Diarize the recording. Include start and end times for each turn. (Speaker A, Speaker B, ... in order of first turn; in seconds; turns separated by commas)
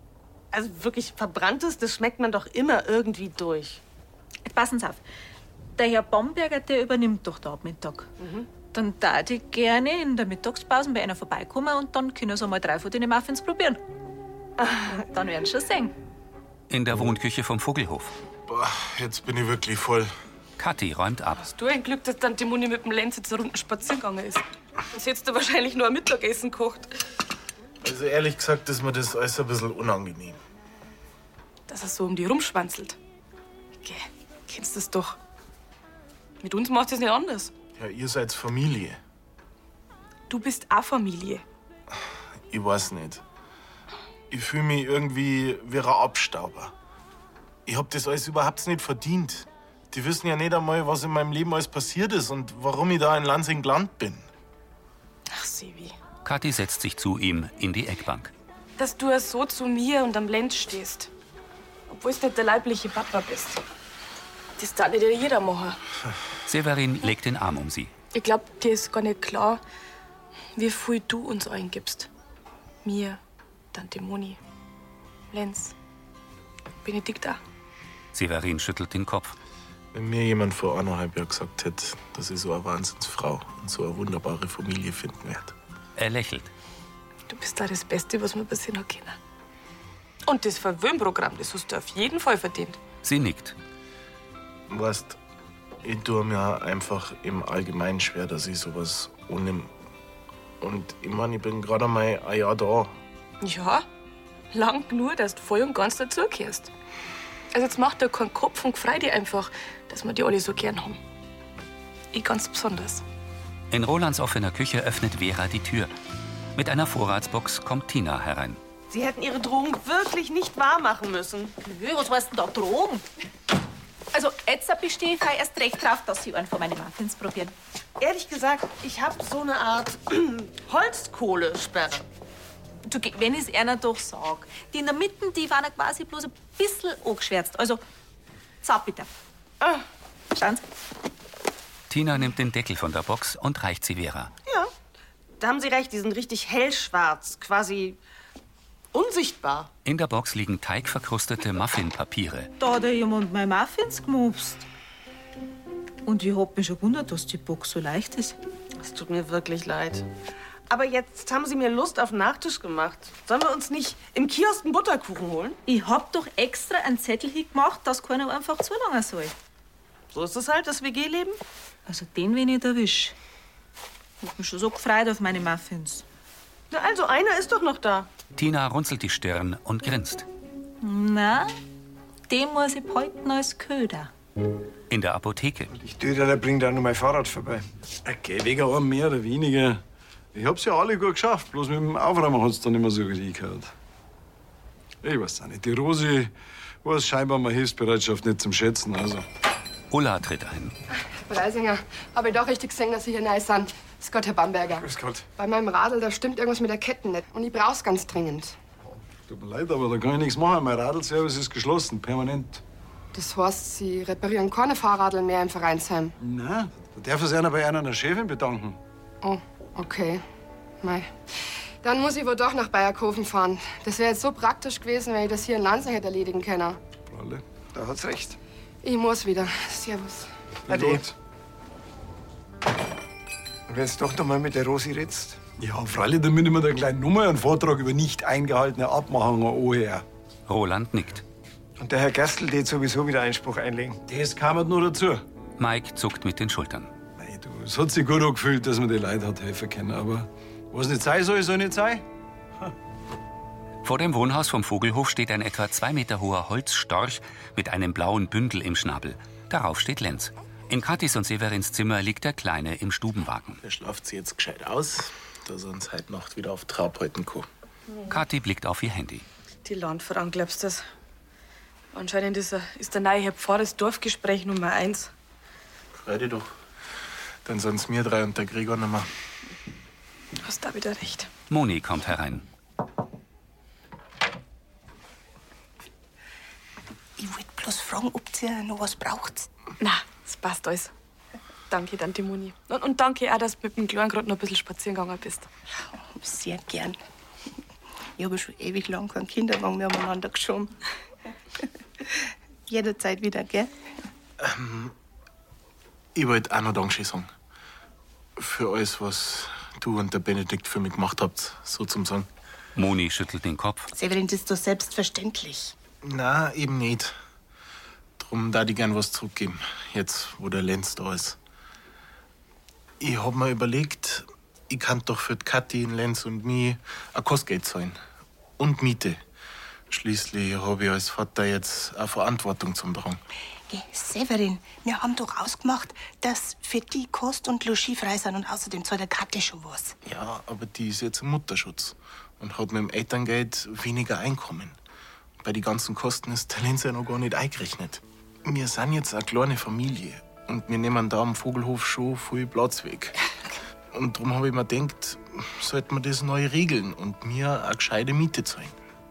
Speaker A: 0.5-3.8, Speaker B: 4.5-5.0, Speaker B: 5.8-8.1, Speaker A: 8.2-8.5, Speaker B: 8.7-13.8, Speaker B: 14.8-15.9, Speaker C: 16.7-18.1, Speaker D: 18.5-20.1, Speaker C: 20.6-21.4, Speaker E: 21.4-24.4, Speaker E: 24.9-26.9, Speaker D: 27.8-30.4, Speaker E: 31.7-33.0, Speaker E: 33.8-35.2, Speaker E: 36.4-37.5, Speaker D: 37.8-39.0, Speaker E: 40.3-41.4, Speaker D: 42.5-43.2, Speaker D: 44.3-46.7, Speaker D: 47.7-54.3, Speaker E: 55.3-56.0, Speaker C: 56.2-58.3, Speaker E: 58.8-61.1, Speaker E: 61.9-63.6, Speaker E: 64.6-65.8, Speaker C: 66.5-67.9, Speaker E: 68.1-69.6, Speaker E: 70.6-72.1, Speaker E: 72.8-73.2, Speaker E: 73.7-74.4, Speaker E: 75.3-75.7, Speaker E: 76.8-77.4, Speaker C: 78.1-79.3, Speaker D: 79.9-85.5, Speaker C: 86.0-86.5, Speaker E: 87.3-89.2, Speaker E: 90.3-92.8, Speaker C: 93.0-93.5, Speaker D: 94.7-95.2, Speaker D: 95.8-99.7, Speaker D: 100.6-102.9, Speaker E: 103.4-103.8, Speaker E: 104.5-106.7, Speaker E: 107.5-111.0, Speaker E: 112.1-113.0, Speaker C: 113.7-115.9, Speaker C: 116.6-118.6, Speaker A: 118.9-121.5, Speaker B: 121.6-123.0, Speaker B: 124.1-127.5, Speaker A: 128.0-132.1, Speaker B: 132.9-137.8, Speaker B: 138.6-139.1, Speaker B: 140.3-140.6, Speaker C: 141.9-144.3, Speaker A: 145.4-148.0, Speaker A: 148.9-149.7, Speaker C: 149.8-152.5, Speaker B: 152.6-154.7, Speaker B: 156.1-158.4, Speaker A: 158.8-160.1, Speaker A: 160.7-165.6, Speaker B: 165.7-169.3, Speaker A: 170.1-171.4, Speaker B: 171.9-173.2, Speaker B: 174.2-176.0, Speaker A: 176.7-178.1, Speaker C: 178.4-180.3, Speaker B: 180.8-181.5, Speaker B: 182.3-184.1, Speaker C: 184.9-185.7, Speaker F: 185.8-187.6, Speaker G: 188.1-189.8, Speaker G: 190.3-193.7, Speaker G: 195.0-199.2, Speaker C: 199.9-200.7, Speaker H: 201.2-208.6, Speaker G: 204.9-205.2, Speaker G: 209.3-212.6, Speaker H: 213.1-216.1, Speaker G: 216.2-218.8, Speaker H: 219.2-220.2, Speaker H: 220.8-221.1, Speaker H: 221.8-226.8, Speaker G: 227.1-227.4, Speaker F: 227.7-228.4, Speaker H: 228.8-230.3, Speaker G: 230.7-231.1, Speaker F: 233.7-235.4, Speaker G: 235.6-240.0, Speaker C: 240.5-241.2, Speaker F: 241.8-244.0, Speaker G: 244.1-245.2, Speaker C: 245.6-246.9, Speaker G: 247.2-252.0, Speaker C: 253.8-263.6, Speaker D: 263.6-267.5, Speaker C: 268.1-269.2, Speaker E: 269.6-270.9, Speaker E: 271.9-275.1, Speaker D: 276.0-276.5, Speaker D: 277.4-279.1, Speaker E: 280.4-281.3, Speaker C: 281.5-282.4, Speaker I: 287.2-289.5, Speaker E: 289.8-290.9, Speaker E: 291.7-295.5, Speaker I: 295.9-297.0, Speaker I: 298.2-300.7, Speaker I: 302.7-303.7, Speaker D: 304.4-304.9, Speaker D: 306.1-307.3, Speaker D: 308.4-312.3, Speaker C: 312.8-313.9, Speaker I: 313.9-315.8, Speaker D: 316.0-317.1, Speaker D: 318.2-321.4, Speaker D: 323.0-328.0, Speaker D: 328.6-329.2, Speaker D: 329.9-333.2, Speaker I: 333.7-339.9, Speaker D: 340.1-344.8, Speaker D: 345.4-353.2, Speaker D: 353.9-358.7